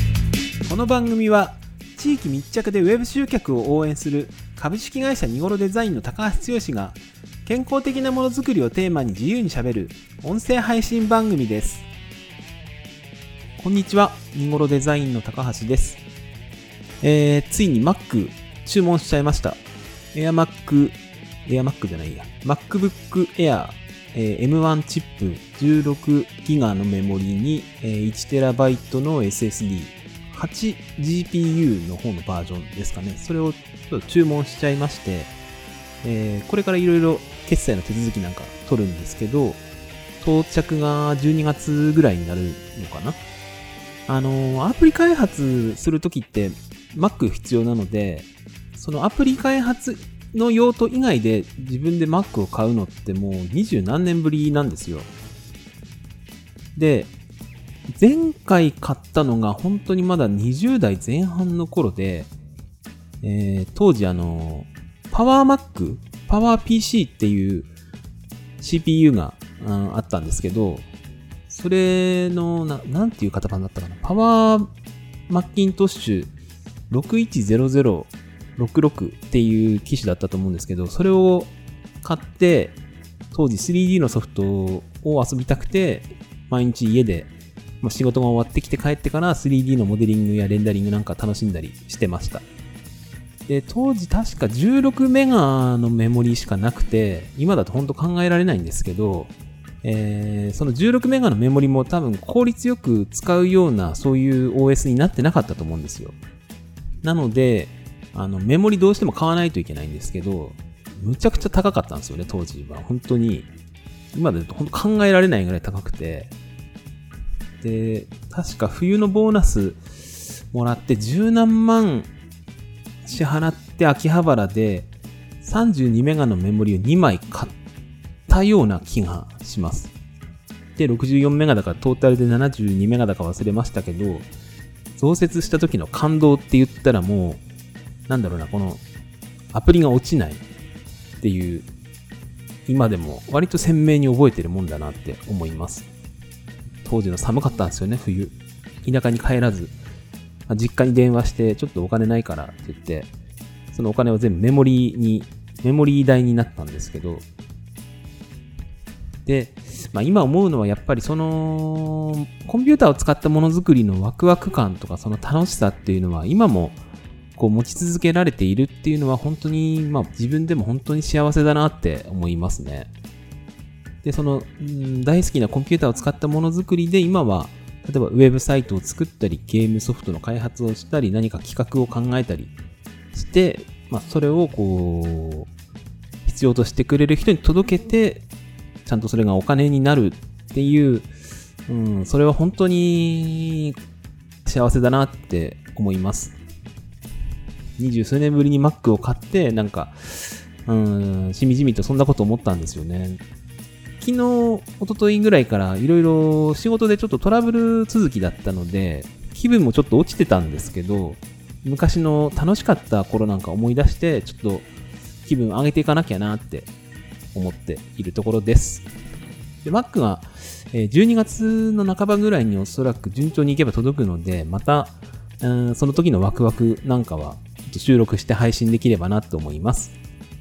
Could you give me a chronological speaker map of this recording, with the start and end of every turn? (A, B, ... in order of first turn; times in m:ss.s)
0:00.6-0:11.9 A
0:13.6-0:16.0 A
0:17.0-0:19.6 A
0:20.1-0:35.3 A
0:36.0-0:39.6 A
0:40.2-0:43.2 A
0:44.1-0:55.1 A
0:56.8-0:57.1 A
0:57.9-1:02.3 A
1:03.2-1:07.7 A
1:08.6-1:10.9 A
1:11.5-1:14.7 A
1:15.3-1:16.3 A
1:16.9-1:22.8 A
1:23.3-1:32.4 A
1:33.5-1:46.2 A
1:47.0-1:53.5 A
1:54.1-1:56.3 A
1:57.6-1:59.8 A
2:00.5-2:02.1 A
2:03.0-2:04.9 A
2:05.4-2:07.5 A
2:08.3-2:09.9 A
2:10.8-2:14.3 A
2:15.0-2:17.4 A
2:18.1-2:18.8 A
2:19.5-2:20.4 A
2:21.2-2:21.7 A
2:22.7-2:25.9 A
2:26.8-2:29.7 A
2:30.5-2:33.1 A
2:33.7-2:37.2 A
2:39.2-2:46.8 A
2:47.3-2:52.9 A
2:54.0-3:02.5 A
3:03.1-3:05.5 A
3:06.2-3:08.2 A
3:08.8-3:11.1 A
3:11.7-3:13.8 A
3:14.4-3:16.4 A
3:17.8-3:23.2 A
3:24.0-3:34.7 A
3:35.2-3:36.7 A
3:37.3-3:38.9 A
3:39.6-3:49.9 A